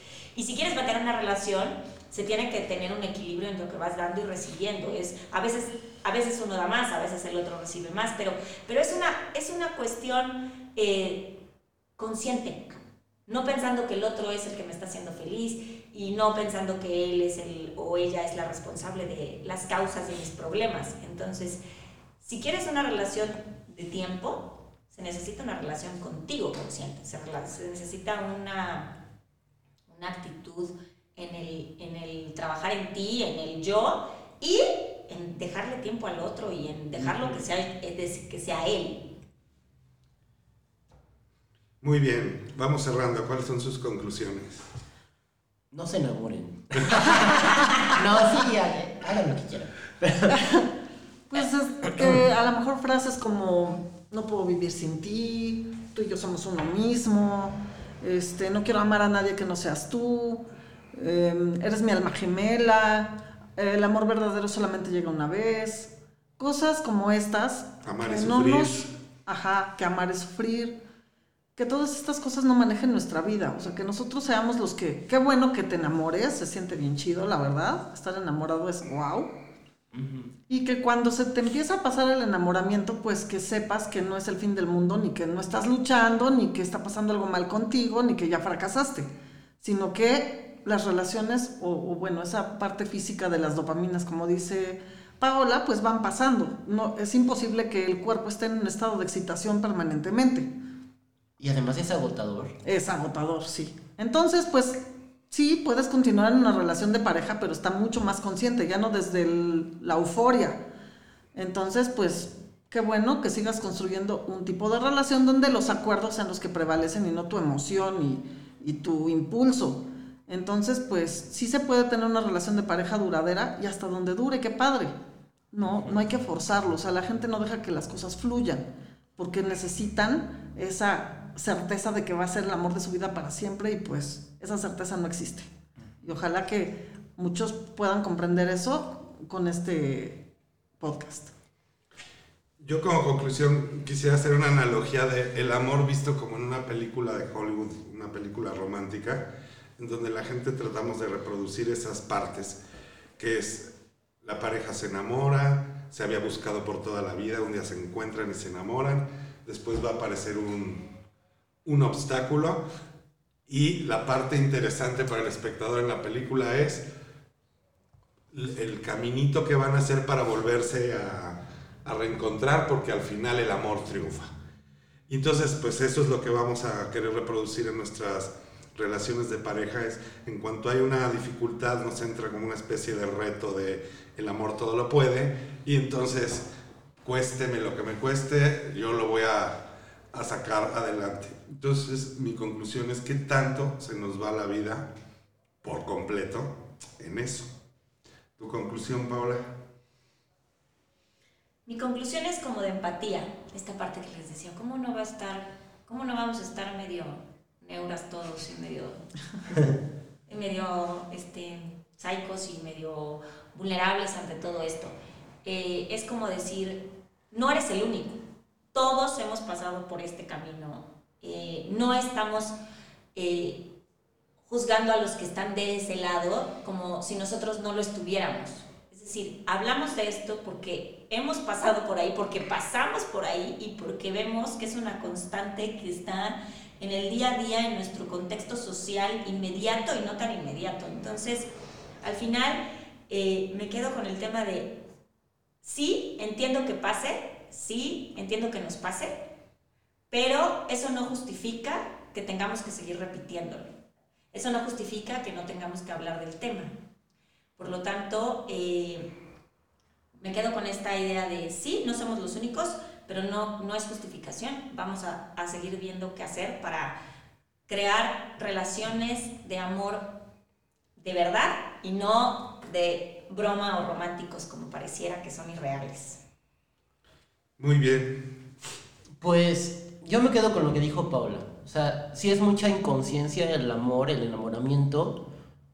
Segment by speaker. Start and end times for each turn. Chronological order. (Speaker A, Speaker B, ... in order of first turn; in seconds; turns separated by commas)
Speaker A: 0.3-11.4, Speaker A: 12.0-21.6, Speaker A: 22.2-28.9, Speaker A: 29.9-39.0, Speaker B: 41.8-44.6, Speaker C: 45.7-50.6, Speaker D: 50.3-50.6, Speaker D: 51.3-70.8, Speaker C: 51.9-52.2, Speaker B: 67.8-68.9, Speaker D: 71.5-79.3, Speaker C: 79.9-80.3, Speaker D: 80.5-89.1, Speaker D: 89.6-100.5, Speaker C: 101.4-102.5, Speaker D: 102.6-110.6, Speaker D: 111.3-125.0, Speaker D: 125.5-128.6, Speaker D: 129.2-135.5, Speaker D: 136.0-140.2, Speaker D: 140.8-141.3, Speaker B: 142.6-152.6, Speaker B: 153.2-153.7, Speaker B: 154.2-160.9, Speaker B: 161.6-162.6, Speaker B: 163.5-166.8, Speaker B: 168.3-174.3, Speaker B: 175.1-186.4, Speaker B: 187.0-194.9, Speaker B: 195.6-197.5, Speaker B: 198.4-199.5, Speaker A: 201.7-209.0, Speaker A: 210.3-218.2, Speaker A: 218.7-222.6, Speaker A: 223.1-223.7, Speaker A: 224.4-241.5, Speaker A: 242.0-244.8, Speaker A: 245.6-249.2, Speaker A: 250.1-253.7, Speaker A: 254.3-256.7, Speaker A: 257.6-259.1, Speaker A: 260.2-266.9, Speaker A: 267.7-270.1, Speaker A: 271.0-276.2, Speaker B: 277.6-278.3, Speaker C: 279.2-285.2